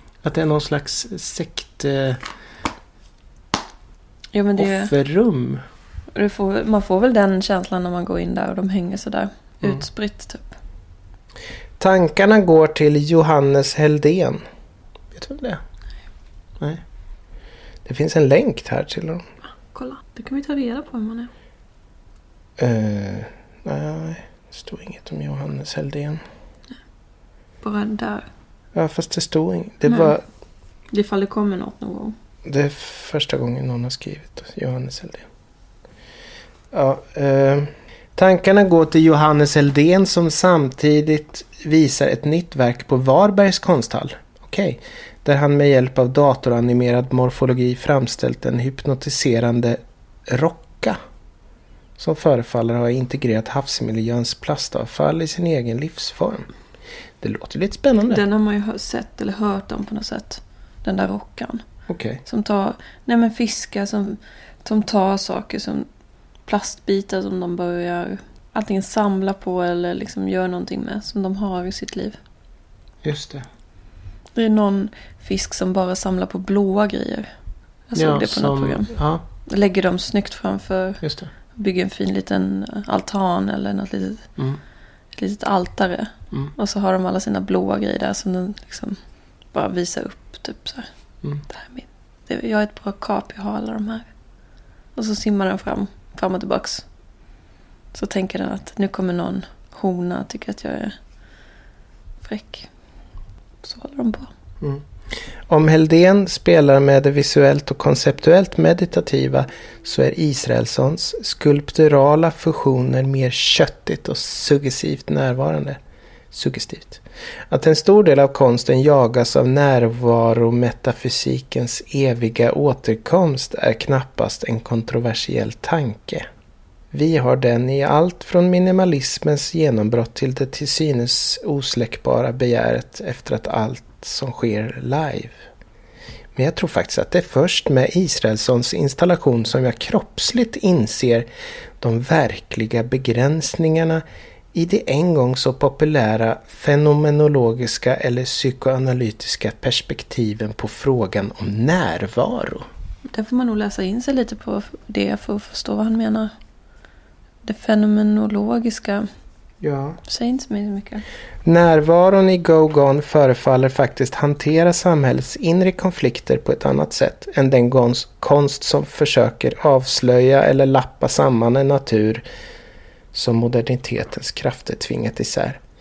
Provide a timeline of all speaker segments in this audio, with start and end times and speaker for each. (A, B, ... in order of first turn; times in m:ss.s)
0:00.2-0:02.2 A
0:04.3-0:04.9 B
0:04.6-0:05.6 A
0:06.1-0:10.6 B
0:11.8-0:14.4 A
0:15.1-0:15.6 A
0:17.8-0:19.2 A
0:19.7-0:21.3 B
0:22.6-0:26.2 A
0:27.6-0:28.3 B
0:28.7-0:30.2 A
0:29.9-0:30.1 B
0:30.9-0:32.1 B
0:32.4-0:35.3 A
0:36.7-0:51.0 A
0:52.0-0:56.5 A
0:57.2-0:58.2 A
0:58.1-1:01.6 B
1:01.9-1:02.2 A
1:02.2-1:05.9 B
1:06.4-1:12.2 B
1:13.0-1:13.4 A
1:14.3-1:17.3 B
1:17.9-1:18.9 B
1:18.0-1:19.2 A
1:19.4-1:21.0 B
1:21.0-1:21.3 A
1:21.5-1:24.3 B
1:25.1-1:29.0 B
1:29.5-1:30.9 B
1:31.5-1:34.1 B
1:35.0-1:36.8 B
1:37.9-1:41.0 B
1:42.2-1:42.7 B
1:43.6-1:44.3 B
1:44.6-1:55.8 A
1:56.3-2:06.2 A
2:06.9-2:15.4 A
2:16.3-2:21.3 A
2:21.8-2:32.7 A
2:33.1-2:36.3 B
2:37.4-2:39.1 B
2:39.6-2:40.0 A
2:40.0-2:41.0 B
2:41.4-2:52.2 A
2:53.1-2:55.6 A